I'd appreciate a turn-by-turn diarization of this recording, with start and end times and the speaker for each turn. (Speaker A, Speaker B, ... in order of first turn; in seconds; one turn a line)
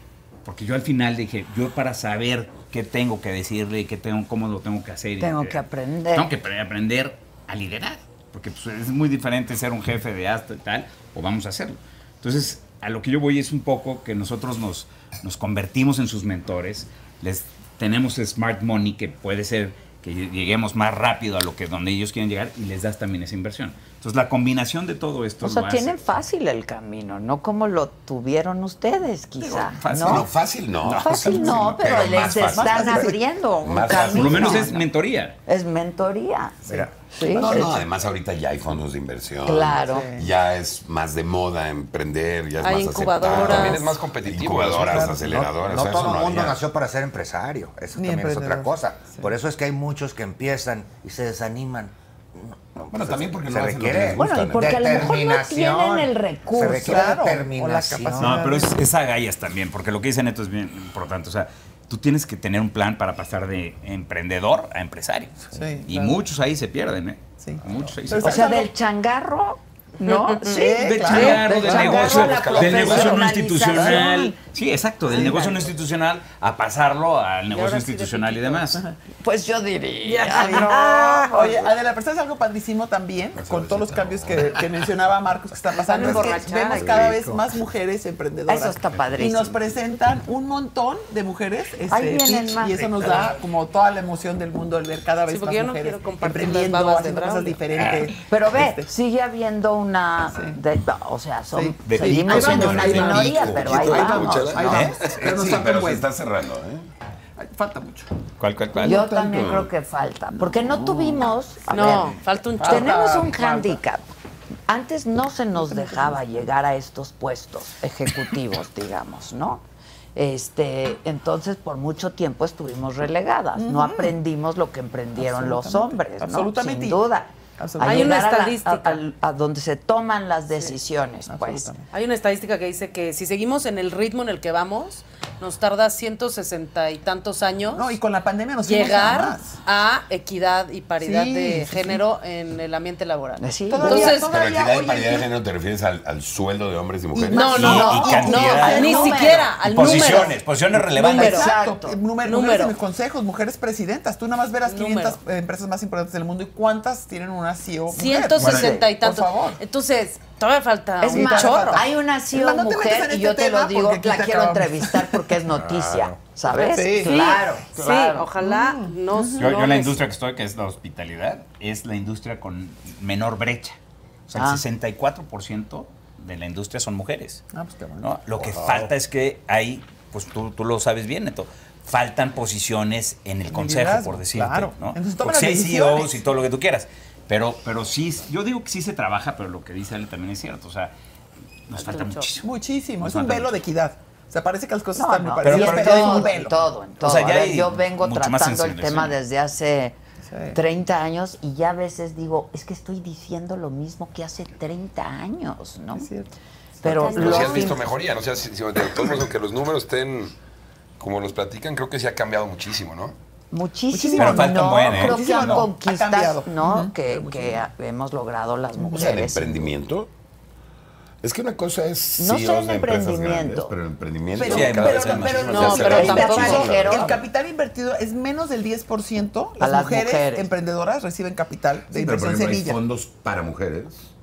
Speaker A: 0.5-5.6
Speaker B: 5.2-6.3
Speaker A: 6.1-26.1
Speaker B: 25.4-30.3
Speaker A: 29.4-30.3
Speaker C: 29.9-33.0
Speaker A: 30.8-31.8
Speaker B: 30.9-34.9
Speaker D: 32.4-33.1
Speaker C: 33.6-34.7
Speaker A: 34.1-35.4
Speaker B: 35.5-37.7
Speaker E: 36.7-37.8
Speaker C: 37.3-46.6
Speaker B: 39.5-40.1
Speaker D: 39.8-40.3
Speaker F: 42.6-43.9
Speaker G: 43.3-45.1
Speaker D: 44.8-46.0
Speaker E: 45.2-58.5
Speaker D: 48.0-49.3
Speaker C: 52.9-55.1
Speaker B: 54.2-57.1
Speaker D: 56.8-58.9
Speaker A: 58.2-68.5
Speaker D: 65.5-66.2
Speaker D: 67.4-68.7
Speaker B: 68.2-74.3
Speaker F: 70.1-71.3
Speaker D: 70.5-74.1
Speaker A: 70.8-78.8
Speaker D: 75.1-75.7
Speaker B: 75.1-75.6
Speaker F: 77.5-78.7
Speaker B: 79.2-81.7
Speaker F: 80.2-81.0
Speaker D: 80.2-98.9
Speaker C: 83.4-84.6
Speaker F: 85.8-87.1
Speaker E: 86.0-86.4
Speaker C: 86.9-87.2
Speaker E: 87.1-87.5
Speaker B: 88.5-89.6
Speaker B: 91.9-93.3
Speaker F: 95.3-97.6
Speaker A: 97.7-98.1
Speaker B: 98.3-104.7
Speaker D: 101.5-106.1
Speaker A: 101.8-103.3
Speaker C: 102.6-104.4
Speaker G: 103.8-105.2
Speaker A: 104.7-105.0
Speaker C: 105.0-106.9
Speaker D: 107.4-108.1
Speaker A: 108.4-109.0
Speaker B: 108.8-114.1
Speaker C: 108.8-109.7
Speaker D: 110.4-111.2
Speaker F: 111.7-113.0
Speaker D: 112.6-113.8
Speaker B: 114.7-119.6
Speaker D: 115.6-116.4
Speaker B: 120.2-131.7
Speaker D: 123.6-124.2
Speaker D: 125.2-127.0
Speaker D: 127.6-128.2
Speaker F: 127.8-129.0
Speaker D: 131.3-131.9
Speaker F: 131.9-138.0
Speaker D: 137.7-139.6
Speaker F: 138.6-144.3
Speaker D: 141.0-142.0
Speaker B: 143.4-144.3
Speaker D: 143.7-145.3
Speaker C: 144.2-147.4
Speaker D: 147.1-159.6
Speaker F: 147.3-150.4
Speaker B: 147.3-150.3
Speaker A: 147.5-151.4
Speaker F: 151.1-151.5
Speaker B: 151.1-152.0
Speaker F: 152.2-152.8
Speaker F: 154.7-155.2
Speaker F: 157.9-161.8
Speaker A: 158.4-158.7
Speaker B: 158.4-158.9
Speaker B: 161.0-168.3
Speaker D: 161.1-165.4
Speaker E: 165.5-166.2
Speaker D: 166.5-167.4
Speaker F: 167.0-170.0
Speaker D: 168.4-169.6
Speaker A: 169.4-173.8
Speaker A: 174.3-177.4
Speaker B: 174.3-174.6
Speaker D: 177.5-178.1
Speaker A: 178.0-190.9
Speaker E: 178.4-178.8
Speaker D: 183.5-186.2
Speaker A: 191.7-192.5
Speaker F: 191.8-192.3
Speaker D: 192.4-196.6
Speaker A: 193.0-193.5
Speaker B: 194.9-199.9
Speaker A: 195.4-196.3
Speaker A: 197.0-199.2
Speaker D: 200.3-200.6
Speaker B: 200.5-206.1
Speaker D: 205.9-207.3
Speaker B: 206.8-207.8
Speaker G: 207.1-210.3
Speaker G: 211.0-213.2
Speaker B: 213.5-219.7
Speaker D: 213.9-217.6
Speaker A: 214.2-215.7
Speaker D: 218.8-219.1
Speaker C: 218.9-220.1
Speaker C: 221.2-225.0
Speaker B: 222.2-223.7
Speaker D: 224.3-232.8
Speaker A: 224.4-225.6
Speaker G: 224.6-226.2
Speaker F: 225.5-226.7
Speaker B: 225.8-227.2
Speaker C: 225.8-227.2
Speaker B: 229.6-230.5
Speaker C: 231.9-234.1